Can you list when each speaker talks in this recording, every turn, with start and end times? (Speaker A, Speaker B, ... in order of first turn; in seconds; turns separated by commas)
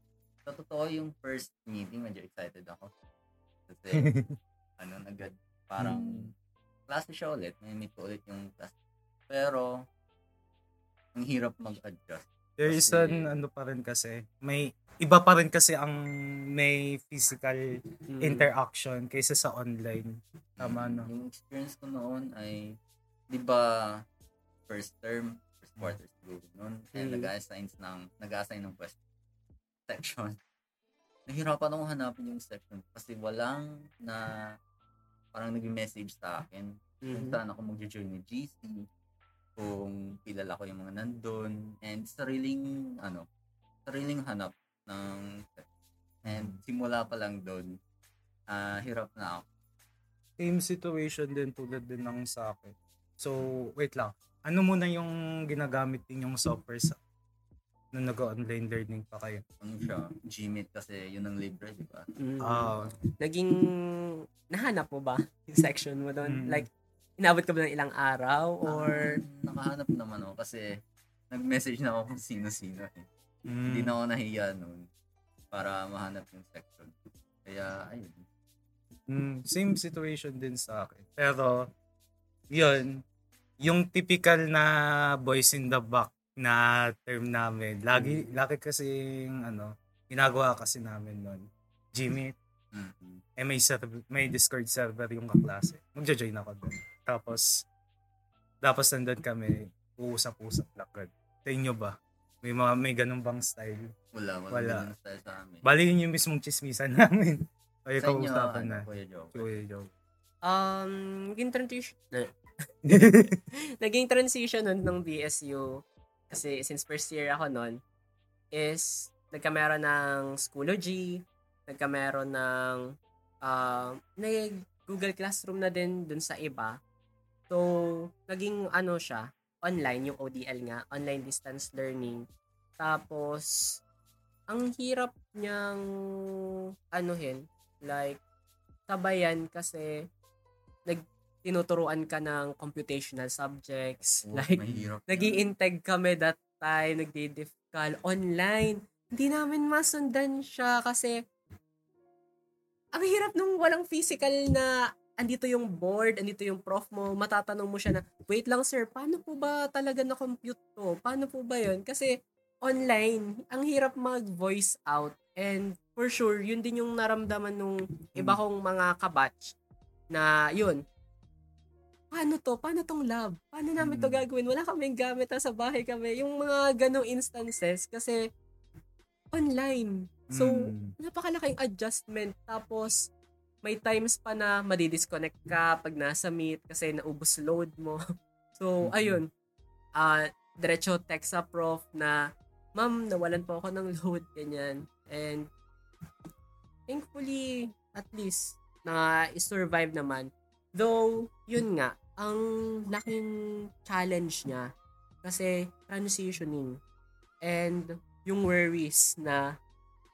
Speaker A: 0.5-2.9, Speaker A: 3.7-4.1, Speaker B: 4.0-4.3, Speaker A: 4.8-6.3, Speaker B: 5.8-6.3, Speaker A: 6.9-8.7, Speaker A: 9.3-9.9, Speaker A: 11.1-13.3, Speaker B: 12.6-16.0, Speaker B: 16.5-17.6, Speaker C: 18.1-18.5, Speaker B: 18.2-21.1, Speaker A: 20.6-22.8, Speaker A: 23.3-24.0, Speaker A: 24.7-29.0, Speaker C: 26.9-27.3, Speaker A: 29.9-30.4, Speaker A: 31.3-34.3, Speaker A: 35.3-38.9, Speaker C: 37.0-37.4, Speaker A: 39.5-43.2, Speaker A: 43.9-45.7, Speaker A: 46.2-47.7, Speaker B: 46.3-46.6, Speaker A: 48.5-49.4, Speaker B: 50.4-57.0, Speaker B: 57.9-59.4, Speaker A: 59.6-62.1, Speaker C: 62.2-66.7, Speaker B: 62.4-63.0, Speaker B: 66.2-66.7, Speaker C: 67.2-69.2, Speaker A: 68.6-70.7, Speaker A: 71.3-73.1, Speaker B: 73.5-73.9, Speaker A: 73.7-74.9, Speaker A: 75.5-78.2, Speaker B: 79.1-81.7, Speaker B: 82.5-83.0, Speaker B: 83.6-92.3, Speaker A: 92.7-93.2, Speaker B: 93.4-97.6, Speaker B: 98.6-103.9, Speaker A: 104.1-105.7, Speaker B: 104.5-104.8, Speaker B: 105.6-109.9, Speaker A: 108.0-109.5, Speaker C: 110.4-112.3, Speaker B: 112.8-113.4, Speaker C: 113.8-117.8, Speaker C: 118.5-126.8, Speaker C: 127.5-132.3, Speaker C: 132.8-133.8, Speaker C: 134.5-136.3, Speaker C: 136.9-138.2, Speaker C: 138.9-140.1, Speaker C: 140.9-151.2, Speaker A: 144.2-145.5, Speaker C: 152.9-169.5, Speaker C: 170.1-170.8, Speaker C: 172.1-178.2, Speaker B: 173.8-174.2, Speaker C: 179.3-183.1, Speaker B: 180.3-180.9, Speaker C: 183.6-188.0, Speaker C: 188.5-189.3, Speaker B: 188.8-189.2, Speaker C: 190.0-192.2, Speaker C: 192.8-195.5, Speaker C: 196.9-204.7, Speaker C: 205.2-206.8, Speaker C: 207.4-209.6